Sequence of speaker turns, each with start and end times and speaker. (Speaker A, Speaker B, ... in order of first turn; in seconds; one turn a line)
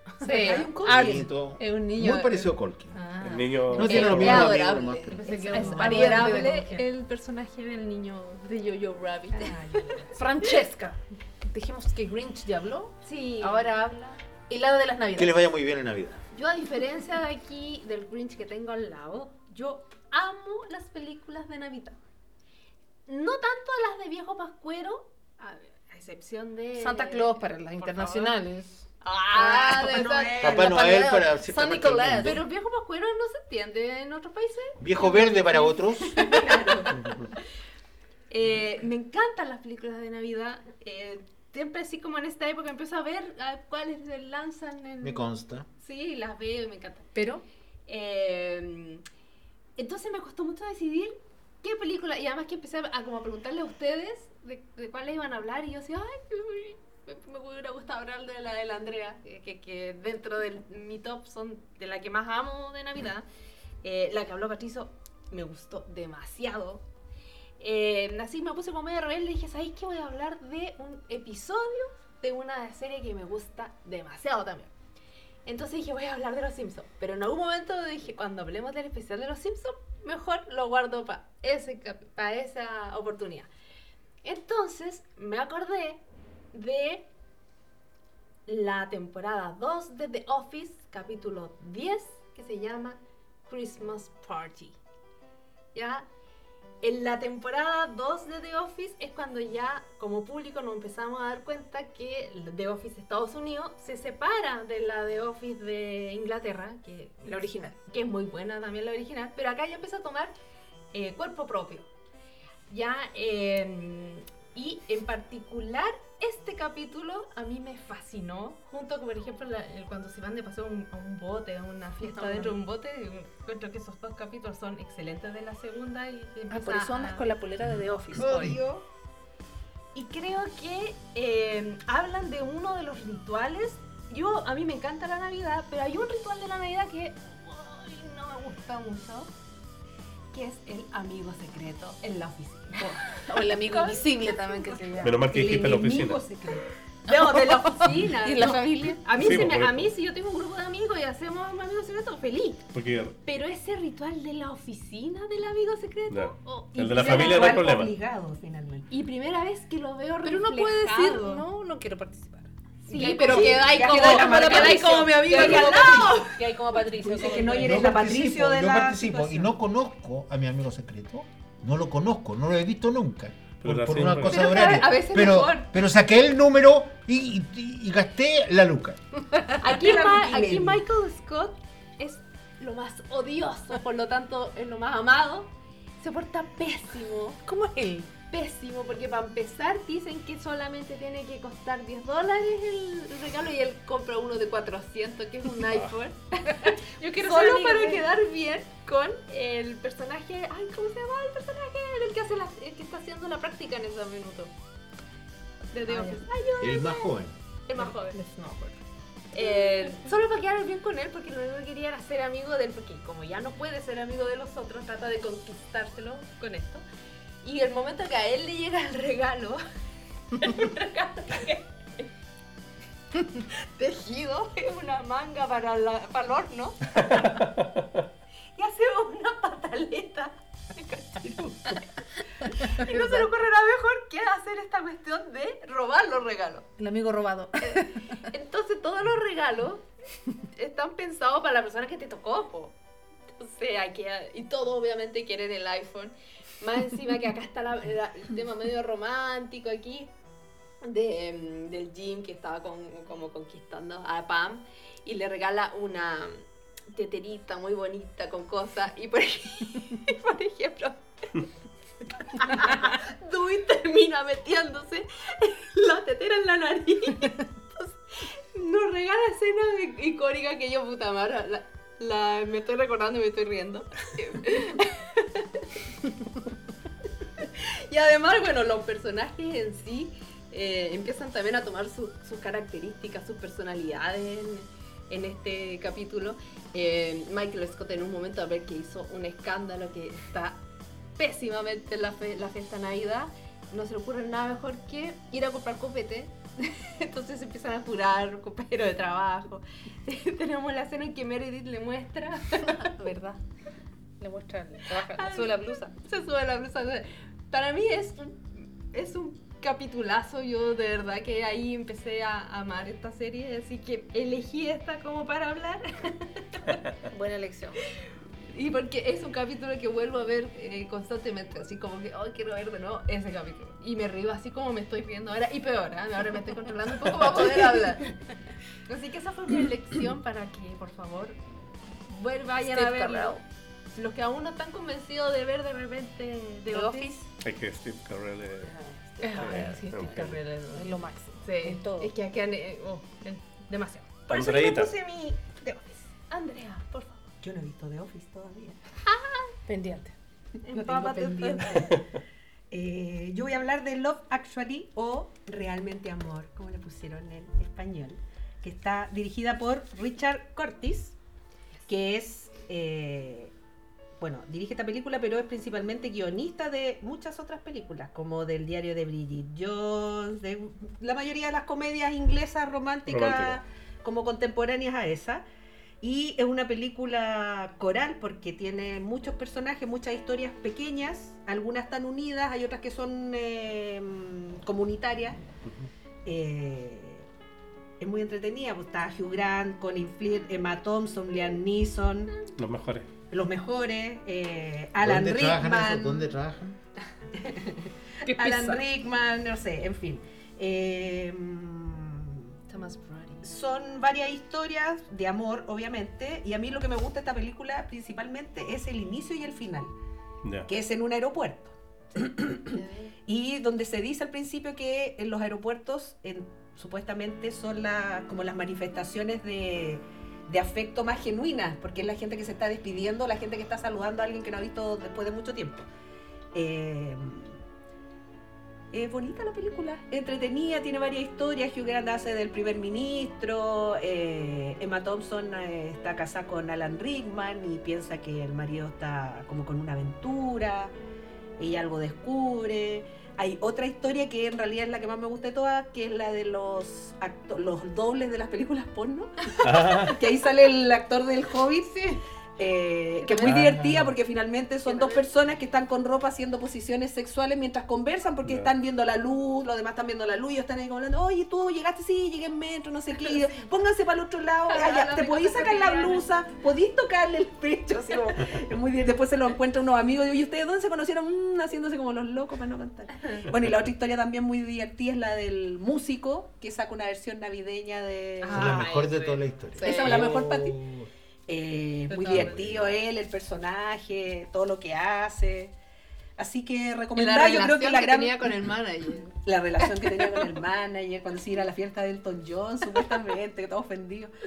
Speaker A: 0.2-0.8
Speaker B: 0.2-2.5
Speaker C: 0.2-1.3
Speaker D: 0.8-3.0
Speaker A: 3.0-4.4
Speaker B: 3.1-9.6
Speaker E: 3.2-4.6
Speaker D: 3.7-5.3
Speaker A: 5.1-6.9
Speaker C: 5.5-6.6
Speaker C: 9.3-10.2
Speaker A: 10.2-15.3
Speaker B: 13.0-13.9
Speaker D: 15.2-16.2
Speaker B: 16.3-22.0
Speaker B: 23.1-28.4
Speaker A: 26.8-28.8
Speaker B: 29.0-30.5
Speaker A: 29.3-32.4
Speaker C: 29.8-30.8
Speaker D: 30.4-32.4
Speaker B: 32.2-36.9
Speaker D: 34.8-36.2
Speaker C: 36.2-36.9
Speaker B: 38.3-45.3
Speaker D: 45.0-45.7
Speaker B: 45.8-47.1
Speaker A: 47.1-47.4
Speaker B: 47.9-49.0
Speaker B: 49.8-63.3
Speaker B: 63.8-66.8
Speaker B: 67.6-74.7
Speaker B: 75.5-83.5
Speaker B: 84.2-86.0
Speaker B: 86.5-87.1
Speaker B: 88.5-94.8
Speaker B: 95.7-96.1
Speaker B: 96.8-110.3
Speaker A: 107.2-107.7
Speaker B: 110.9-111.9
Speaker B: 112.7-127.3
Speaker A: 122.0-122.6
Speaker A: 126.5-128.6
Speaker B: 128.1-128.7
Speaker C: 128.2-128.8
Speaker B: 129.9-139.3
Speaker B: 140.3-144.9
Speaker A: 142.8-145.2
Speaker E: 145.0-146.2
Speaker C: 145.2-146.7
Speaker B: 147.1-152.7
Speaker A: 147.1-149.0
Speaker E: 149.2-149.9
Speaker E: 152.7-153.2
Speaker B: 153.3-157.7
Speaker E: 156.1-157.9
Speaker C: 156.8-158.9
Speaker B: 158.9-161.4
Speaker A: 160.2-168.0
Speaker B: 162.9-166.3
Speaker C: 163.2-166.3
Speaker C: 167.0-169.5
Speaker D: 167.6-179.0
Speaker E: 173.6-174.7
Speaker B: 174.2-175.7
Speaker B: 179.6-187.4
Speaker C: 179.6-180.8
Speaker A: 187.4-188.1
Speaker B: 188.3-204.5
Speaker A: 196.6-198.1
Speaker B: 205.7-207.2
Speaker A: 205.9-206.2
Speaker D: 206.6-207.4
Speaker B: 207.7-208.2
Speaker A: 207.7-208.8
Speaker B: 209.3-216.8
Speaker A: 209.4-209.9
Speaker B: 217.4-219.6
Speaker B: 220.3-222.1
Speaker B: 223.2-226.8
Speaker E: 227.1-227.4
Speaker B: 228.6-236.7
Speaker A: 232.8-233.3
Speaker A: 236.8-238.1
Speaker B: 237.6-239.8
Speaker B: 240.5-242.7
Speaker B: 243.4-250.1
Speaker B: 250.8-256.4
Speaker B: 256.9-261.5
Speaker B: 262.1-275.7
Speaker B: 277.4-290.6
Speaker B: 291.2-303.2
Speaker A: 302.6-303.4
Speaker A: 304.2-305.7
Speaker B: 304.9-316.8
Speaker A: 317.1-317.8
Speaker B: 318.5-328.1
Speaker B: 328.9-331.4
Speaker B: 332.1-337.2
Speaker A: 332.6-333.4
Speaker A: 336.7-337.3
Speaker E: 337.4-338.7
Speaker B: 339.2-347.2
Speaker A: 339.2-342.1
Speaker E: 339.3-340.4
Speaker E: 344.3-344.9
Speaker C: 347.4-348.8
Speaker B: 349.1-349.5
Speaker A: 349.7-350.1
Speaker B: 350.7-351.9
Speaker C: 350.7-352.0
Speaker C: 352.7-361.1
Speaker C: 361.9-363.5
Speaker C: 364.2-375.4
Speaker E: 373.1-373.6
Speaker C: 376.0-385.4
Speaker C: 386.2-387.3
Speaker C: 388.0-392.4
Speaker E: 392.6-393.1
Speaker C: 393.3-396.3
Speaker D: 395.0-396.8
Speaker C: 397.4-402.4
Speaker A: 398.3-398.8
Speaker B: 402.7-403.4
Speaker C: 403.4-409.9
Speaker E: 410.4-410.7
Speaker C: 410.7-425.9
Speaker B: 412.7-413.1
Speaker C: 426.5-427.6
Speaker C: 428.9-440.9
Speaker C: 441.6-478.9
Speaker E: 449.6-450.2
Speaker E: 453.4-454.1
Speaker B: 454.9-455.2
Speaker B: 464.7-466.3
Speaker B: 478.4-480.4
Speaker D: 478.5-481.1
Speaker C: 479.8-480.8
Speaker C: 481.5-485.7
Speaker B: 482.1-482.5
Speaker D: 482.2-483.0
Speaker C: 486.4-488.6
Speaker B: 487.1-490.4
Speaker C: 489.4-494.3